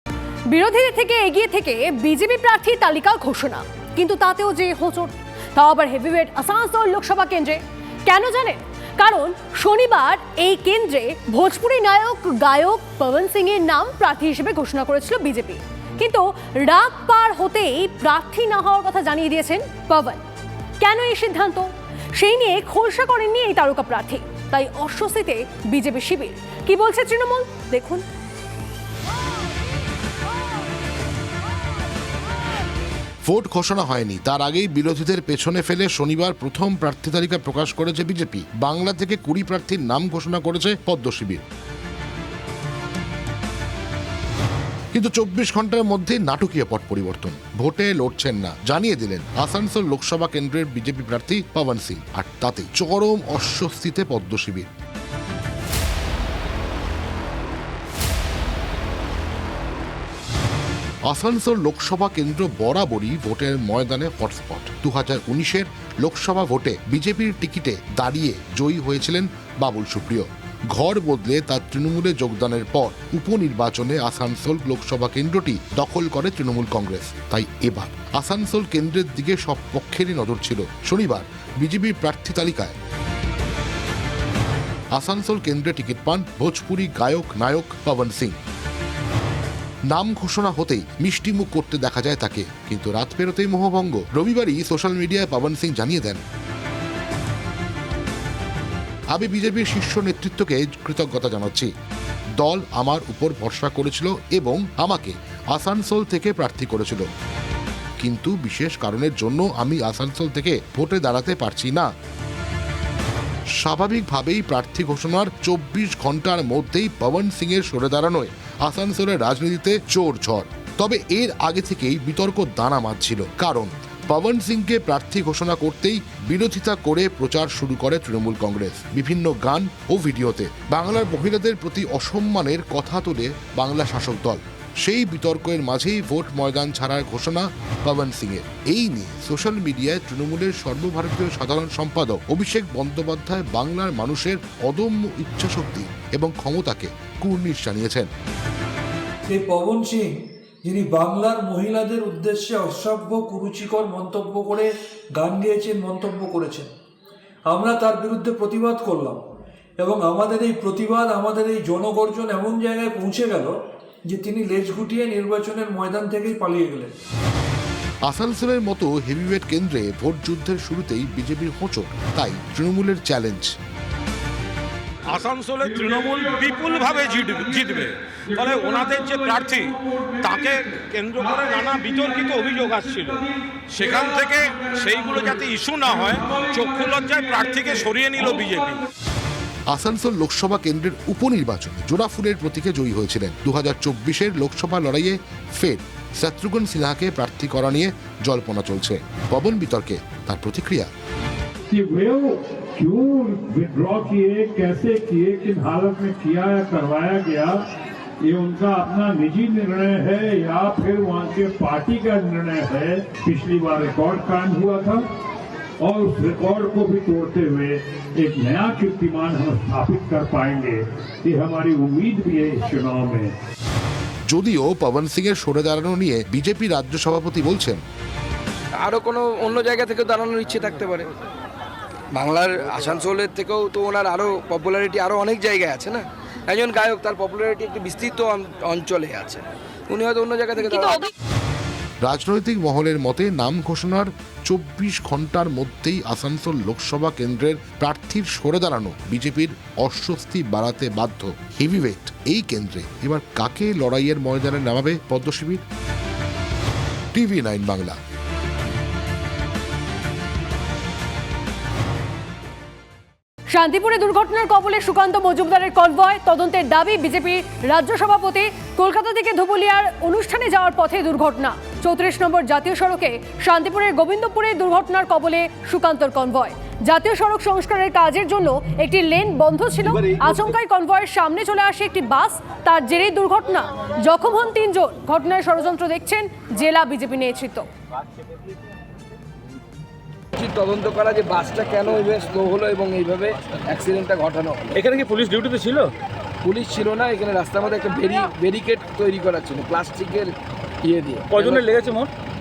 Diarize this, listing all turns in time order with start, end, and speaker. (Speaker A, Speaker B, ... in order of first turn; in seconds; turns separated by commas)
Speaker A: 0.5-20.2, Speaker A: 20.8-28.0, Speaker B: 33.2-41.4, Speaker B: 44.9-54.7, Speaker B: 61.0-82.7, Speaker B: 84.9-88.3, Speaker B: 89.9-96.2, Speaker B: 99.1-101.7, Speaker B: 102.4-107.0, Speaker B: 108.0-111.9, Speaker B: 113.6-148.1, Speaker C: 149.3-150.1, Speaker C: 150.6-156.7, Speaker C: 157.5-159.2, Speaker C: 159.8-163.6, Speaker C: 164.1-166.9, Speaker B: 168.1-173.5, Speaker D: 175.1-188.8, Speaker B: 189.7-200.9, Speaker E: 201.7-207.6, Speaker E: 208.2-215.0, Speaker E: 215.8-223.3, Speaker B: 224.3-227.8, Speaker F: 228.8-231.1, Speaker F: 232.1-241.1, Speaker B: 242.0-255.6, Speaker B: 257.1-258.0, Speaker A: 263.5-287.7, Speaker F: 290.4-294.8, Speaker G: 294.7-295.9, Speaker F: 296.4-300.3, Speaker F: 300.8-301.7, Speaker G: 301.3-302.1